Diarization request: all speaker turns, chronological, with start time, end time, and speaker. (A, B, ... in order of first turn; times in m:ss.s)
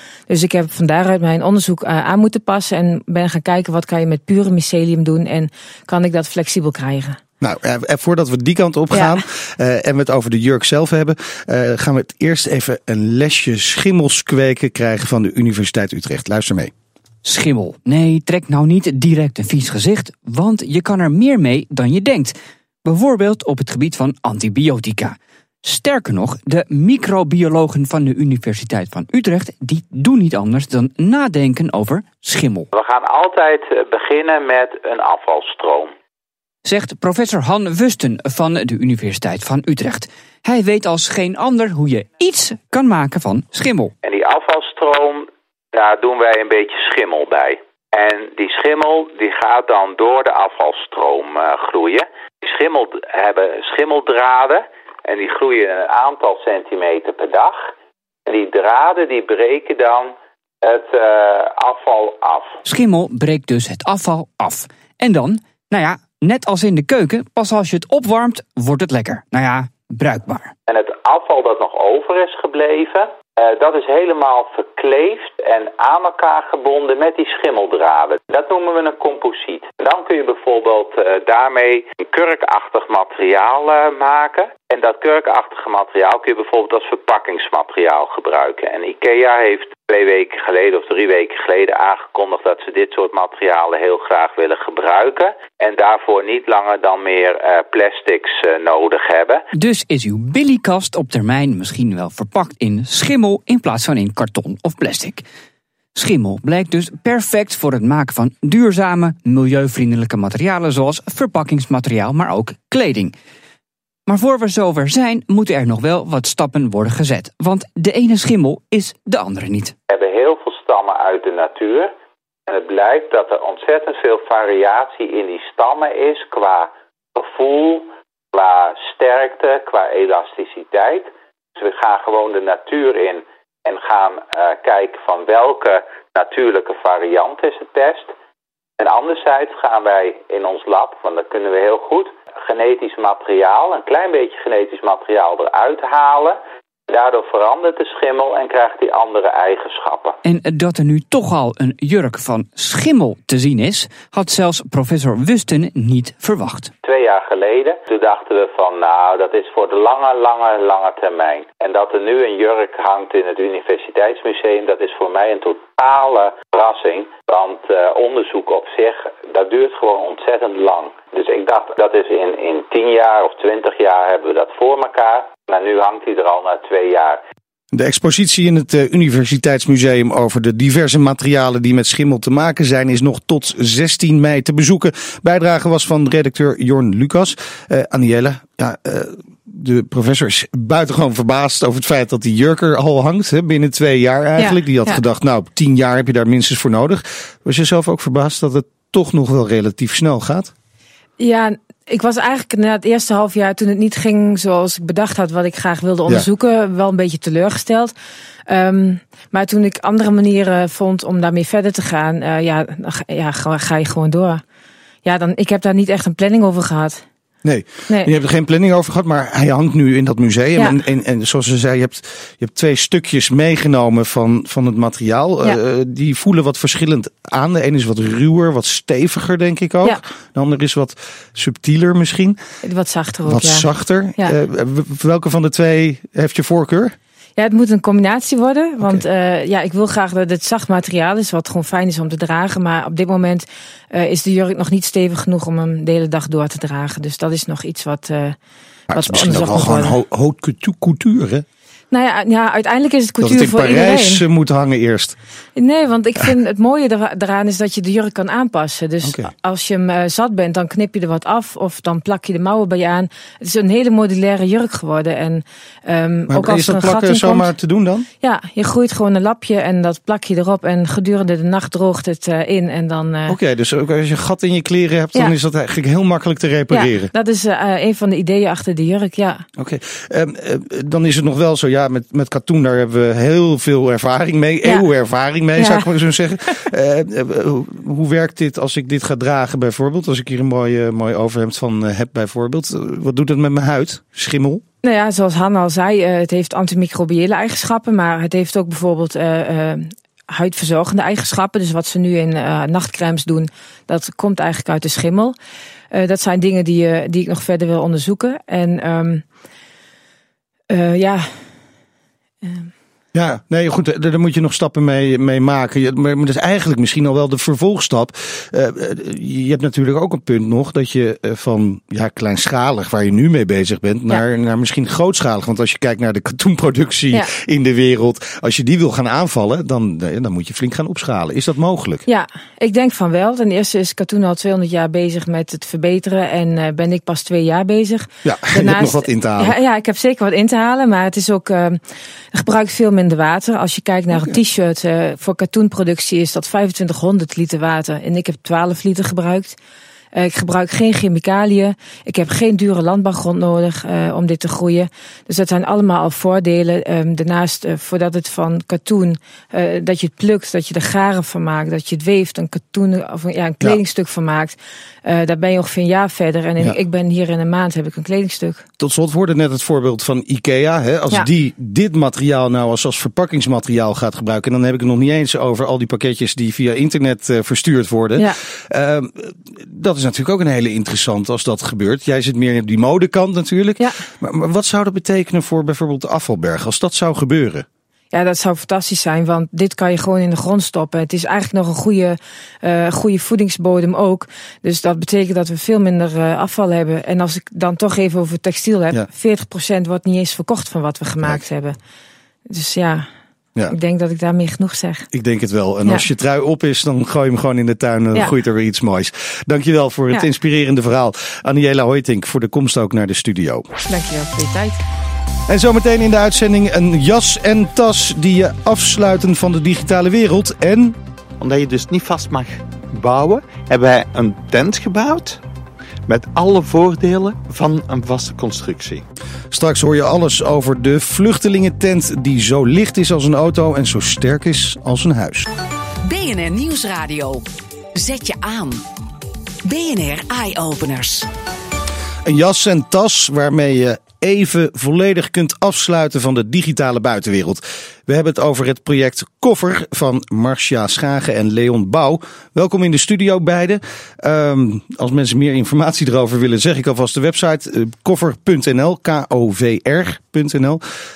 0:00.3-0:07.2 A
0:07.4-0:16.7 B
0:08.9-0:09.2 A
0:17.2-0:32.7 C
0:32.7-0:35.9 D
0:36.6-0:43.9 C
0:44.0-0:57.7 D
0:58.2-1:02.6 D
1:02.6-1:10.5 C
1:10.7-1:39.4 D
1:39.5-1:45.2 C
1:45.9-1:53.1 C
1:54.1-1:59.7 C
1:59.9-2:01.9 D
2:02.5-2:18.1 D
2:18.8-2:30.2 D
2:30.2-2:36.7 C
2:36.8-2:57.2 D
2:57.7-3:20.5 B
3:14.4-3:15.0 A
3:21.2-3:27.9 A
3:28.5-3:34.4 A
3:35.0-3:37.0 A
3:37.4-3:52.4 B
3:52.6-3:53.6 A
3:53.2-3:57.0 B
3:57.4-4:08.4 A
4:08.9-4:11.4 B
4:08.9-4:09.9 A
4:11.9-4:14.2 A
4:13.2-4:15.2 B
4:15.6-4:27.5 A
4:19.0-4:19.3 B
4:26.3-4:28.0 B
4:28.2-4:33.4 A
4:33.3-4:37.1 B
4:36.7-4:39.4 A
4:39.6-4:54.6 B
4:45.6-4:45.9 A
4:54.8-5:05.4 A
5:05.9-5:09.2 A
5:10.7-5:11.3 A
5:12.4-5:12.7 A
5:13.1-5:32.0 B
5:32.0-5:41.8 A
5:38.2-5:39.6 B
5:42.3-5:49.6 A
5:50.1-6:08.6 A
6:08.8-6:27.6 B
6:28.1-6:41.8 A
6:42.5-6:43.1 A
6:43.7-6:45.1 A
6:45.1-6:53.7 B
6:53.9-6:54.8 A
6:55.5-7:01.0 B
7:01.4-7:05.4 E
7:06.1-7:09.0 E
7:09.5-7:15.4 B
7:16.0-7:17.4 F
7:17.9-7:18.8 F
7:19.6-7:21.3 F
7:22.2-7:40.8 B